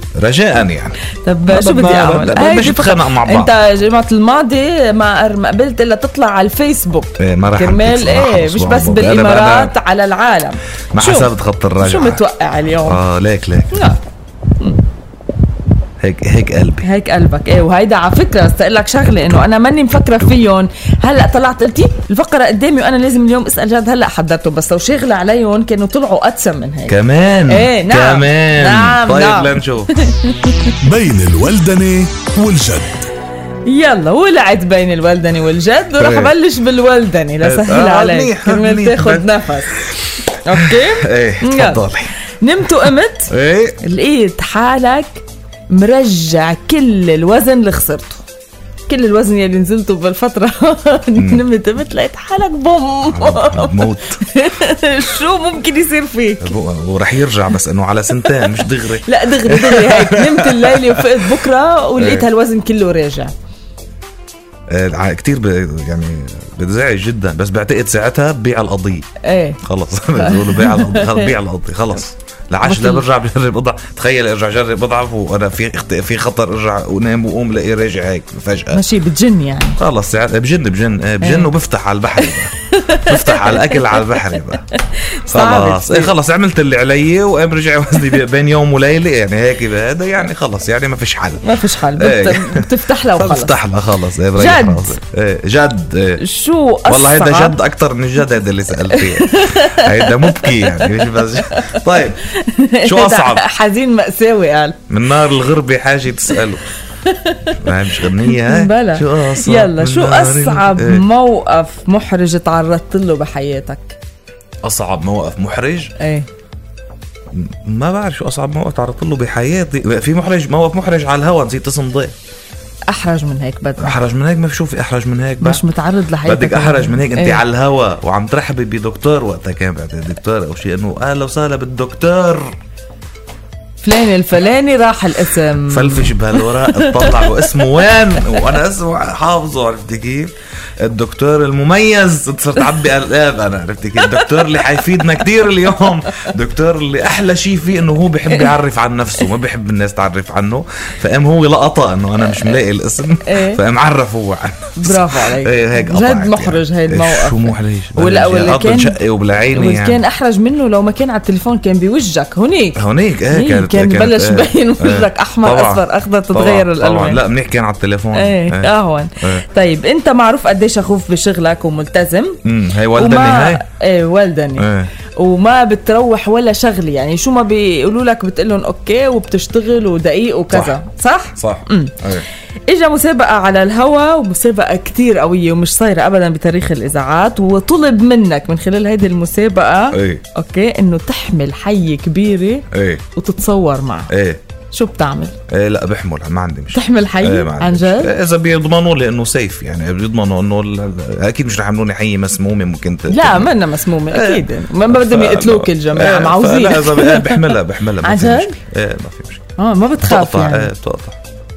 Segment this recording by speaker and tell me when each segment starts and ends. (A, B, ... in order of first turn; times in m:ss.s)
0:00.2-0:03.5 A
0:01.2-0:13.0 B
0:07.2-0:09.7 A
0:10.9-0:12.2 A
0:12.8-0:13.9 A
0:13.7-0:14.0 B
0:16.0-0:16.9 A
0:16.8-0:30.8 B
0:26.9-0:30.0 A
0:30.8-0:33.1 C
0:33.7-0:39.8 B
0:36.0-0:36.3 A
0:37.4-0:42.1 A
0:40.4-0:43.3 B
0:43.3-0:43.8 A
0:43.8-0:48.2 B
0:48.9-0:56.6 B
0:51.2-0:51.4 A
0:53.1-0:54.2 A
0:56.4-1:01.3 A
0:58.1-1:03.3 B
1:02.0-1:02.3 A
1:04.7-1:09.1 A
1:09.2-1:09.6 B
1:09.6-1:18.8 A
1:10.2-1:11.4 B
1:12.6-1:13.0 B
1:18.7-1:19.8 B
1:19.8-1:24.6 A
1:21.2-1:21.5 B
1:22.2-1:26.2 B
1:25.3-1:36.2 A
1:31.4-1:33.6 B
1:34.4-1:35.0 B
1:36.2-1:37.6 B
1:36.8-1:42.2 A
1:38.9-1:44.8 B
1:42.8-1:43.4 A
1:44.9-1:46.7 A
1:47.0-1:54.0 B
1:47.6-1:51.1 A
1:54.6-1:55.9 A
1:56.0-1:56.3 B
1:57.3-2:02.2 A
2:02.9-2:04.0 B
2:03.8-2:05.6 A
2:05.4-2:07.4 B
2:06.2-2:12.5 A
2:13.8-2:18.5 B
2:15.7-2:40.0 A
2:24.0-2:25.2 B
2:25.8-2:26.3 B
2:33.2-2:33.6 B
2:34.8-2:39.0 B
2:39.5-2:47.2 B
2:42.8-2:49.4 A
2:48.1-2:52.4 B
2:52.4-2:53.6 A
2:52.9-3:02.0 B
2:54.6-2:54.9 A
3:00.5-3:00.8 A
3:01.4-3:02.3 A
3:02.7-3:14.1 B
3:09.9-3:10.2 A
3:12.7-3:13.0 A
3:14.1-3:14.4 A
3:14.7-3:15.4 B
3:15.5-3:23.6 A
3:16.7-3:18.2 B
3:23.1-3:28.6 B
3:24.1-3:29.4 A
3:29.6-3:30.7 B
3:30.0-3:31.2 A